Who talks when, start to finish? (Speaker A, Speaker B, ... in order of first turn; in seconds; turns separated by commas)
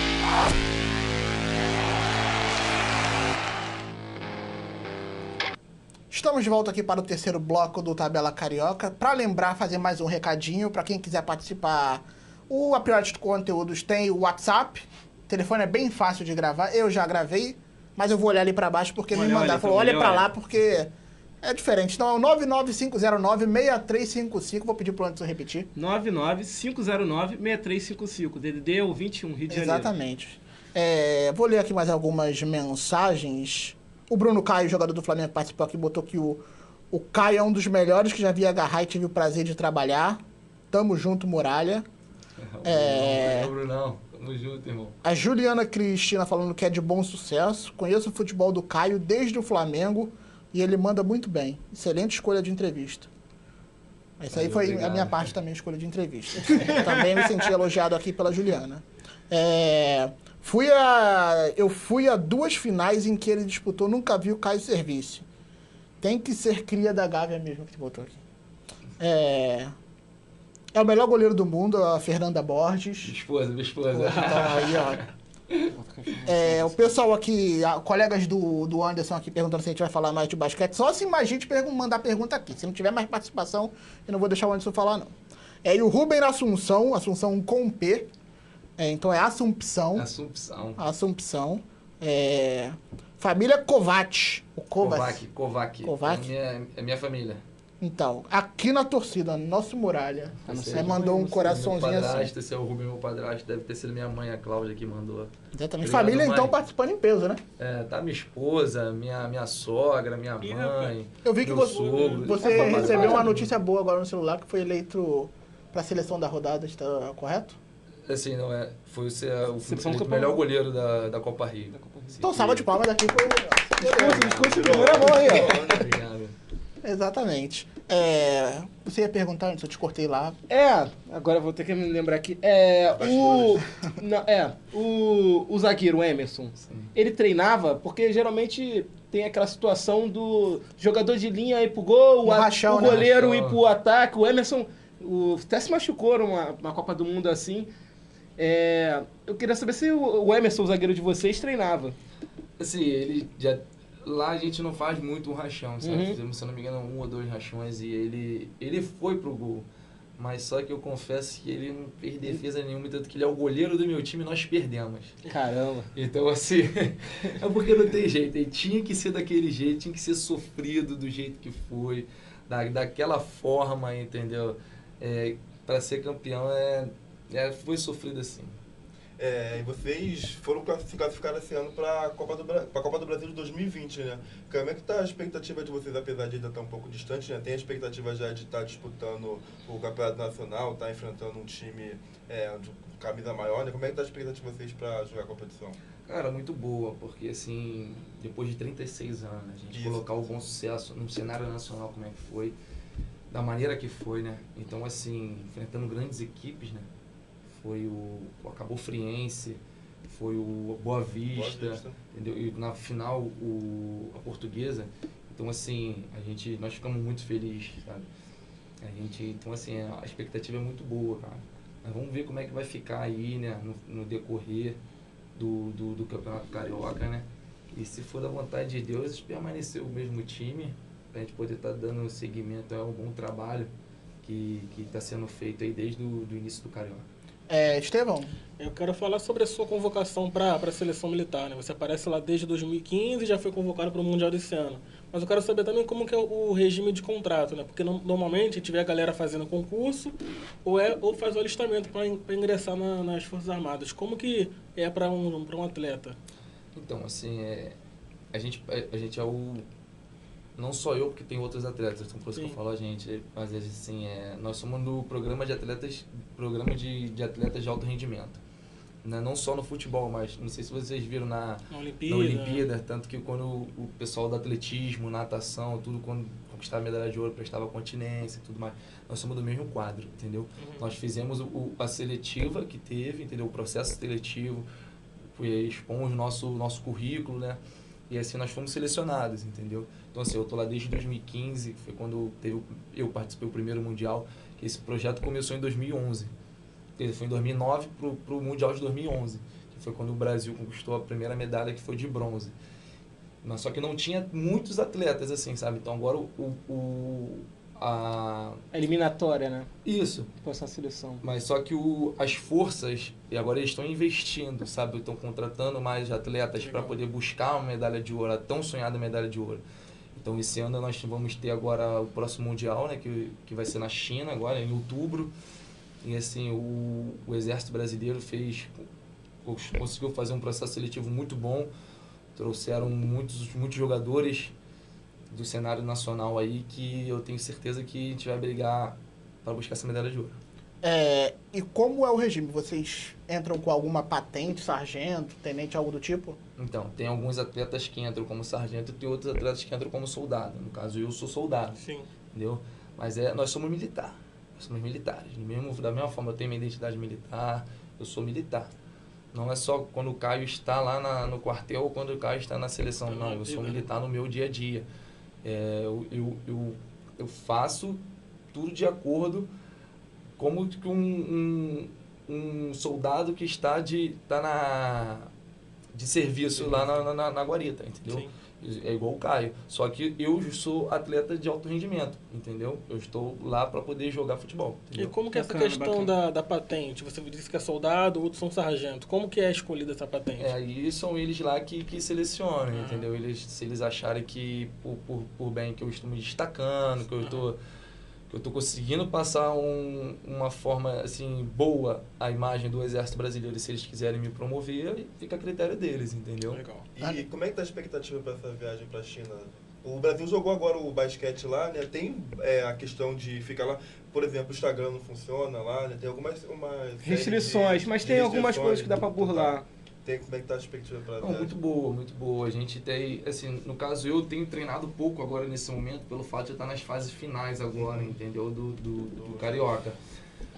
Speaker A: 6.1-25.7, Speaker B: 19.1-20.3, Speaker B: 25.7-29.9, Speaker A: 29.5-41.9, Speaker C: 42.4-45.0, Speaker A: 42.6-43.5, Speaker A: 45.0-53.1, Speaker A: 54.2-65.3, Speaker C: 54.3-55.3, Speaker B: 56.5-57.3, Speaker A: 66.0-68.2, Speaker A: 69.0-69.7, Speaker A: 70.7-73.1, Speaker C: 73.0-75.0, Speaker A: 73.9-75.0, Speaker B: 75.7-76.9, Speaker A: 76.3-85.1, Speaker A: 85.6-88.1, Speaker A: 88.8-90.1, Speaker C: 89.9-90.8, Speaker A: 90.8-95.2, Speaker C: 94.8-97.4, Speaker A: 95.8-96.3, Speaker A: 97.8-102.3, Speaker B: 100.5-101.7, Speaker C: 100.5-106.6, Speaker A: 105.5-107.4, Speaker C: 107.6-113.5, Speaker D: 110.4-110.9, Speaker A: 111.2-117.6, Speaker B: 112.4-113.3, Speaker C: 118.1-122.8, Speaker B: 119.6-120.4, Speaker B: 121.7-122.2, Speaker A: 122.2-124.8, Speaker B: 123.8-125.6, Speaker E: 124.4-126.0, Speaker C: 124.7-126.3, Speaker A: 126.8-130.4, Speaker B: 130.5-147.7, Speaker E: 133.0-133.6, Speaker C: 136.6-136.9, Speaker A: 142.2-143.0, Speaker C: 142.8-143.6, Speaker B: 148.4-151.9, Speaker C: 152.6-165.2, Speaker B: 155.8-156.2, Speaker B: 165.3-165.9, Speaker C: 165.9-178.6, Speaker E: 179.2-195.8, Speaker C: 196.1-202.6, Speaker E: 199.7-200.0, Speaker C: 203.3-206.9, Speaker C: 207.5-218.1, Speaker E: 211.3-212.0, Speaker C: 218.8-224.8, Speaker C: 225.3-233.7, Speaker C: 234.2-237.1, Speaker A: 237.5-238.3, Speaker D: 238.6-256.2, Speaker C: 256.7-257.8, Speaker C: 258.3-259.6, Speaker C: 260.6-268.4, Speaker C: 269.0-284.7, Speaker D: 271.7-272.6, Speaker D: 280.6-280.8, Speaker C: 285.3-296.3, Speaker C: 297.0-302.5, Speaker C: 303.4-308.6, Speaker B: 308.7-309.7, Speaker C: 309.8-310.3, Speaker B: 310.4-311.2, Speaker C: 311.2-319.6, Speaker D: 316.6-316.9, Speaker C: 320.1-325.3, Speaker C: 326.0-328.8, Speaker C: 329.4-331.7, Speaker C: 332.3-334.5, Speaker C: 335.3-340.4, Speaker A: 340.8-346.4, Speaker C: 346.6-351.8, Speaker D: 351.8-352.1, Speaker C: 352.3-358.7, Speaker C: 359.3-364.8, Speaker D: 363.1-363.9, Speaker C: 365.4-369.5, Speaker C: 370.4-375.3, Speaker C: 375.9-385.1, Speaker D: 385.0-390.5, Speaker B: 385.3-386.1, Speaker C: 390.4-397.6, Speaker D: 392.7-393.1, Speaker D: 397.2-397.4, Speaker C: 398.3-406.6, Speaker D: 406.5-406.9, Speaker E: 406.9-421.5, Speaker B: 417.0-419.6, Speaker C: 421.2-430.0, Speaker E: 427.7-428.1, Speaker E: 429.2-429.8